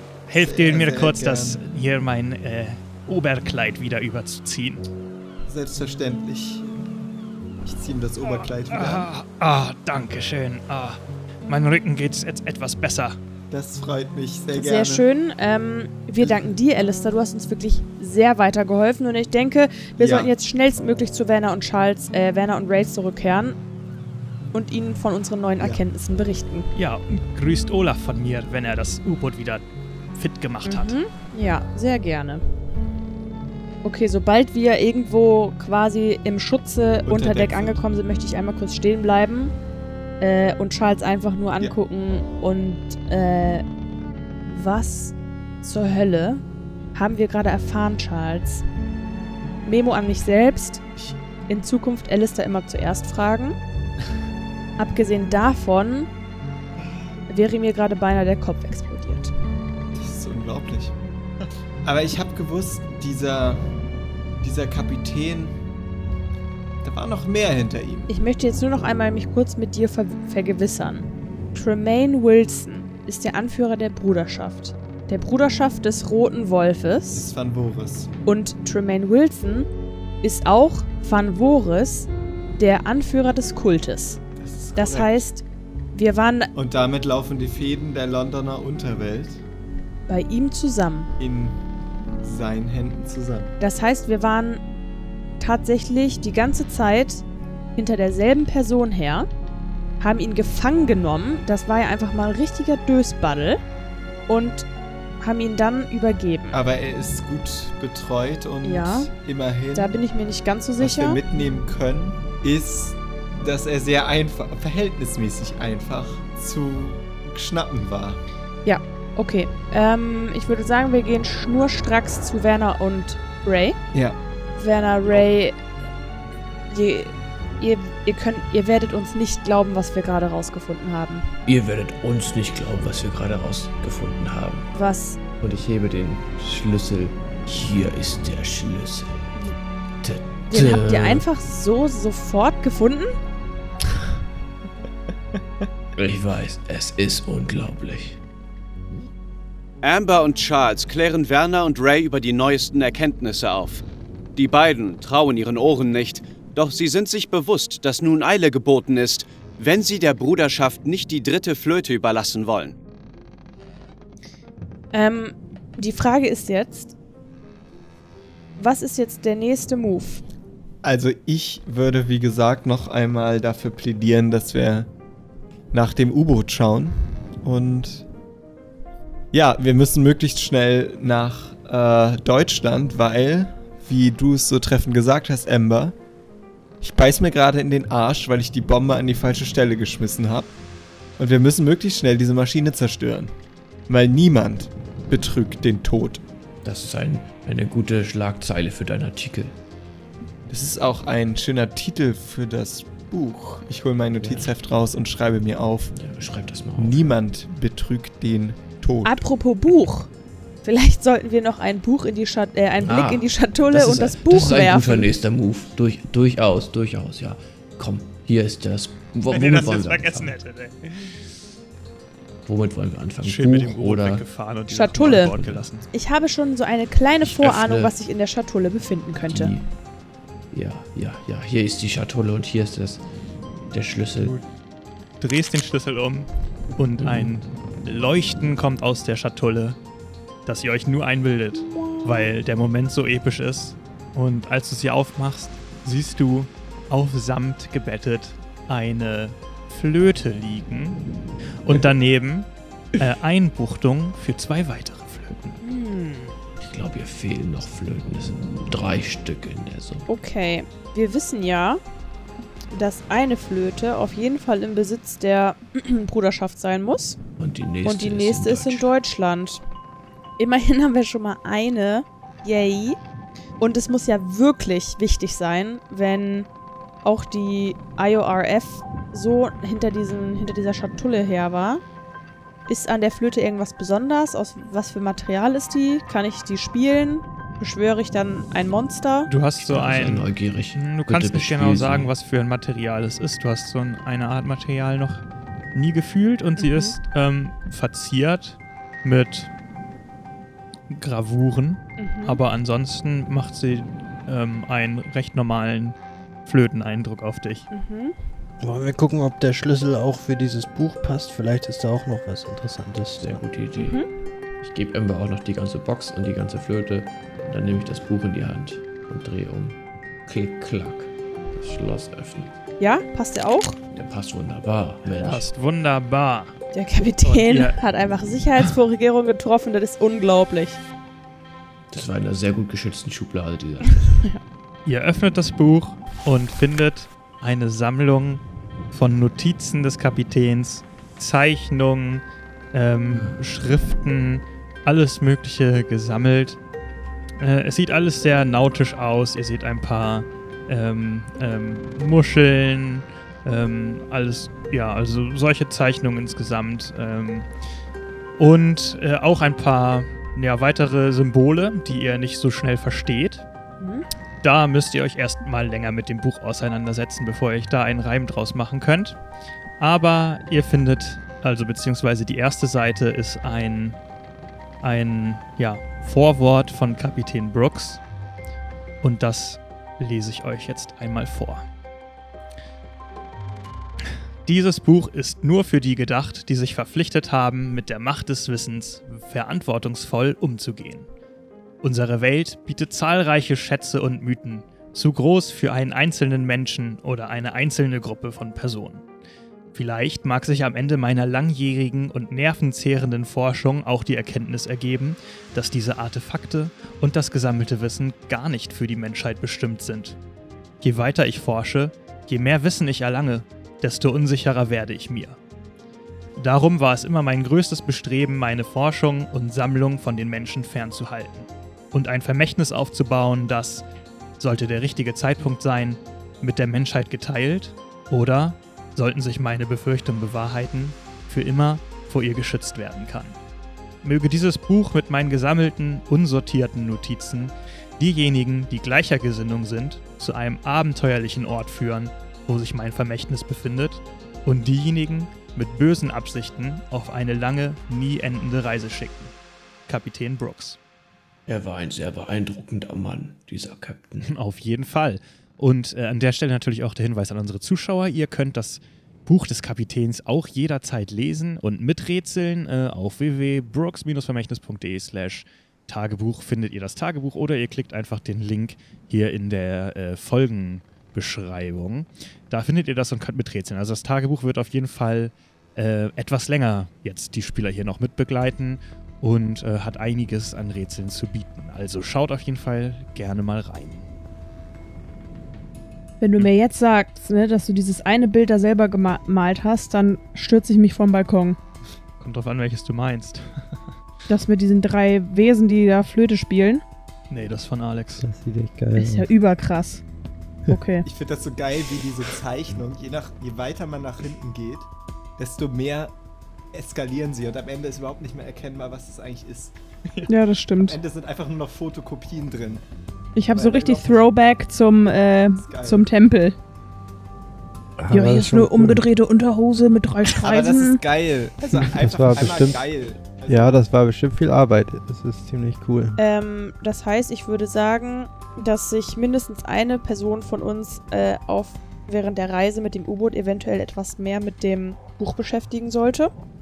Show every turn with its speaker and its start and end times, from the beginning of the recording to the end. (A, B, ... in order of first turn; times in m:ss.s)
0:00.3-0:04.9 A
0:00.3-0:01.6 B
0:05.5-0:06.8 B
0:07.6-0:09.1 B
0:08.2-0:13.2 A
0:13.5-0:15.0 B
0:14.5-0:23.6 C
0:16.2-0:16.5 B
0:20.0-0:20.3 B
0:24.5-0:26.7 C
0:26.8-0:29.6 A
0:30.2-0:31.0 A
0:30.7-0:32.4 C
0:33.8-0:39.5 C
0:37.1-0:37.9 B
0:40.2-0:43.6 C
0:44.5-0:46.4 C
0:47.0-0:48.6 C
0:49.6-0:50.9 C
0:51.5-0:53.6 C
0:54.8-0:56.1 C
0:57.3-0:59.3 C
0:59.9-1:01.0 B
1:01.8-1:03.7 B
1:04.4-1:05.6 B
1:06.8-1:08.1 B
1:08.1-1:17.3 C
1:17.1-1:18.1 B
1:18.3-1:19.7 C
1:20.2-1:24.2 C
1:24.4-1:25.2 B
1:24.8-1:26.5 C
1:26.6-1:29.4 B
1:30.1-1:31.1 C
1:31.2-1:31.6 B
1:32.2-1:33.6 B
1:33.6-1:34.6 C
1:35.4-1:37.2 C
1:37.8-1:39.3 C
1:40.0-1:43.6 C
1:44.3-1:44.7 C
1:45.2-1:46.6 C
1:46.5-1:49.9 B
1:48.6-1:49.1 C
1:49.7-1:51.2 C
1:50.8-1:58.2 B
1:58.6-2:03.8 C
2:03.9-2:04.2 B
2:04.6-2:05.6 C
2:06.7-2:11.3 C
2:11.5-2:14.7 D
2:14.7-2:15.2 C
2:15.4-2:19.4 D
2:20.0-2:21.2 D
2:20.5-2:23.2 C
2:25.3-2:25.6 B
2:26.0-2:28.2 D
2:29.8-2:33.8 E
2:34.4-2:42.8 E
2:44.9-2:46.9 C
2:48.6-2:50.2 C
2:50.8-2:54.9 B
2:55.7-2:58.1 B
2:59.3-3:06.0 B
3:06.8-3:10.5 B
3:11.2-3:13.4 B
3:13.9-3:16.2 B
3:16.6-3:19.6 D
3:20.5-3:26.0 B
3:24.2-3:24.5 D
3:25.9-3:27.1 D
3:26.8-3:29.2 B
3:29.0-3:30.1 C
3:30.6-3:35.1 C
3:32.8-3:40.4 D
3:39.3-3:41.2 A
3:42.4-3:44.3 D
3:43.2-3:45.9 A
3:44.7-3:45.4 C
3:45.0-3:45.7 D
3:45.9-3:49.5 C
3:47.2-3:47.9 D
3:49.2-3:49.7 D
3:50.5-3:53.1 D
3:53.7-3:54.4 D
3:54.2-3:54.5 A
3:55.2-3:59.8 A
3:57.0-3:57.4 D
4:00.5-4:11.0 A
4:11.6-4:12.5 A
4:13.0-4:15.5 A
4:15.6-4:16.4 C
4:16.6-4:20.1 D
4:20.1-4:21.8 C
4:22.7-4:27.2 C
4:27.4-4:28.9 D
4:27.8-4:29.6 C
4:30.4-4:33.0 C
4:33.6-4:36.5 C
4:37.0-4:41.8 C
4:42.7-4:49.3 C
4:49.3-4:55.2 A
4:49.6-4:52.1 D
4:55.7-4:59.5 A
4:56.6-4:57.0 C
5:00.9-5:07.7 A
5:02.0-5:02.4 C
5:07.7-5:08.2 C
5:08.6-5:13.4 F
5:13.2-5:14.0 D
5:13.8-5:14.1 C
5:14.6-5:22.5 D
5:22.8-5:23.8 C
5:23.9-5:25.4 D
5:25.1-5:26.5 A
5:26.7-5:30.8 C
5:27.2-5:27.8 A
5:31.9-5:34.2 D
5:34.1-5:34.4 C
5:34.9-5:46.6 A
5:47.4-5:57.5 A
5:58.4-6:03.4 A
6:03.8-6:04.1 C
6:04.4-6:09.2 A
6:09.8-6:14.0 A
6:14.8-6:18.0 A
6:19.0-6:21.7 A
6:24.5-6:31.1 A
6:31.8-6:39.0 A
6:39.7-6:50.2 A
6:50.8-6:55.4 A
6:56.4-7:03.8 A
7:04.4-7:13.4 A
7:14.0-7:29.3 A
7:29.9-7:30.8 A
7:31.5-7:34.3 D
7:34.2-8:04.1 A
8:06.2-8:11.6 C
8:12.2-8:13.8 A
8:14.3-8:16.8 C
8:17.3-8:18.3 A
8:18.2-8:19.3 F
8:19.0-8:20.0 C
8:20.7-8:21.1 C
8:21.0-8:26.2 B
8:26.7-8:29.8 B
8:30.3-8:31.0 C
8:30.8-8:32.8 B
8:33.4-8:36.6 C
8:33.5-8:34.3 B
8:35.6-8:36.1 B
8:38.0-8:39.1 F
8:38.1-8:41.0 C
8:40.4-8:43.8 B
8:41.8-8:42.8 F
8:43.5-8:46.2 F
8:46.2-8:56.3 C